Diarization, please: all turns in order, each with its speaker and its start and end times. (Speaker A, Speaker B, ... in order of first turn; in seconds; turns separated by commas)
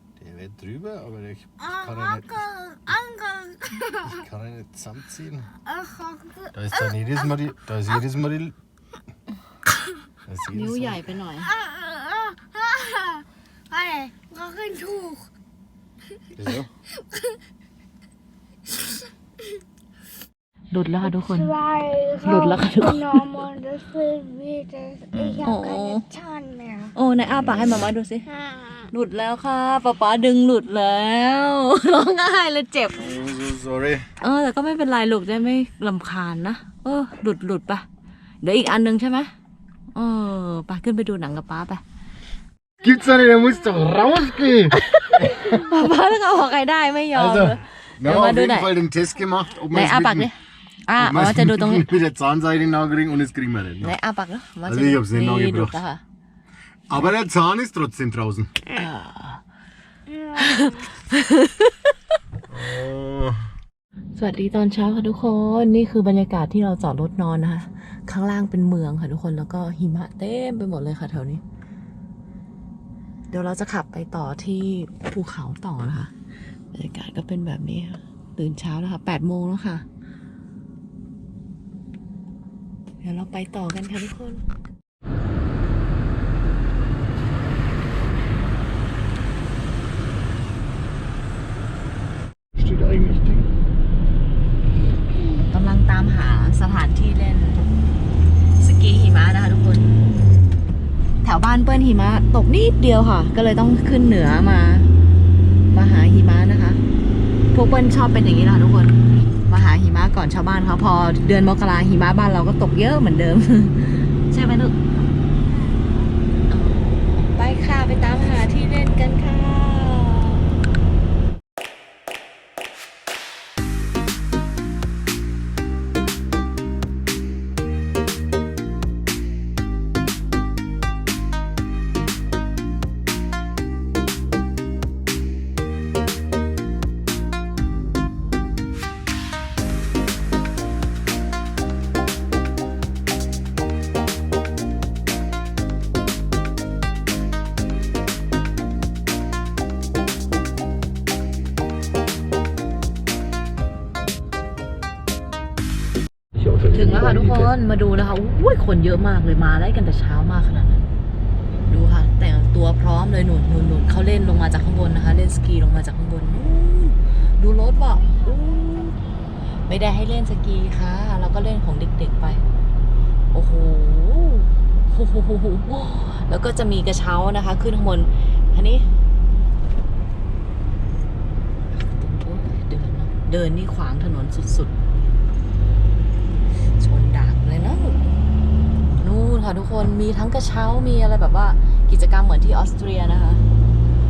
Speaker A: 0.2-2.5, Speaker B: 1.6-4.2, Speaker A: 4.1-5.5, Speaker B: 5.7-6.7, Speaker A: 6.5-8.5, Speaker A: 10.3-11.1, Speaker C: 10.5-11.5, Speaker B: 11.5-15.3, Speaker A: 16.4-16.7, Speaker C: 20.7-21.5, Speaker B: 21.0-26.9, Speaker C: 22.2-23.4, Speaker C: 25.4-26.1, Speaker C: 26.9-28.3, Speaker B: 28.3-28.8, Speaker C: 28.9-33.1, Speaker A: 33.0-34.1, Speaker C: 34.2-37.9, Speaker C: 38.4-39.3, Speaker C: 39.9-41.8, Speaker A: 42.8-45.5, Speaker C: 44.8-48.8, Speaker A: 47.1-50.3, Speaker C: 49.7-51.9, Speaker A: 51.0-53.9, Speaker C: 53.8-56.0, Speaker A: 54.7-55.8, Speaker A: 56.9-58.5, Speaker C: 58.7-59.4, Speaker B: 60.1-60.9, Speaker C: 60.4-61.8, Speaker A: 62.5-63.5, Speaker C: 64.2-71.4, Speaker C: 73.3-76.1, Speaker C: 76.7-79.8, Speaker C: 83.0-84.4, Speaker A: 92.6-93.5, Speaker C: 95.5-97.7, Speaker C: 98.6-99.9, Speaker C: 101.2-104.9, Speaker C: 105.7-106.8, Speaker C: 107.5-114.8, Speaker B: 115.5-115.9, Speaker C: 116.5-120.6, Speaker C: 156.7-160.9, Speaker C: 161.7-169.0, Speaker B: 167.9-169.2, Speaker C: 169.7-172.4, Speaker C: 173.3-178.9, Speaker C: 181.7-184.7, Speaker C: 186.8-188.0, Speaker C: 189.0-193.4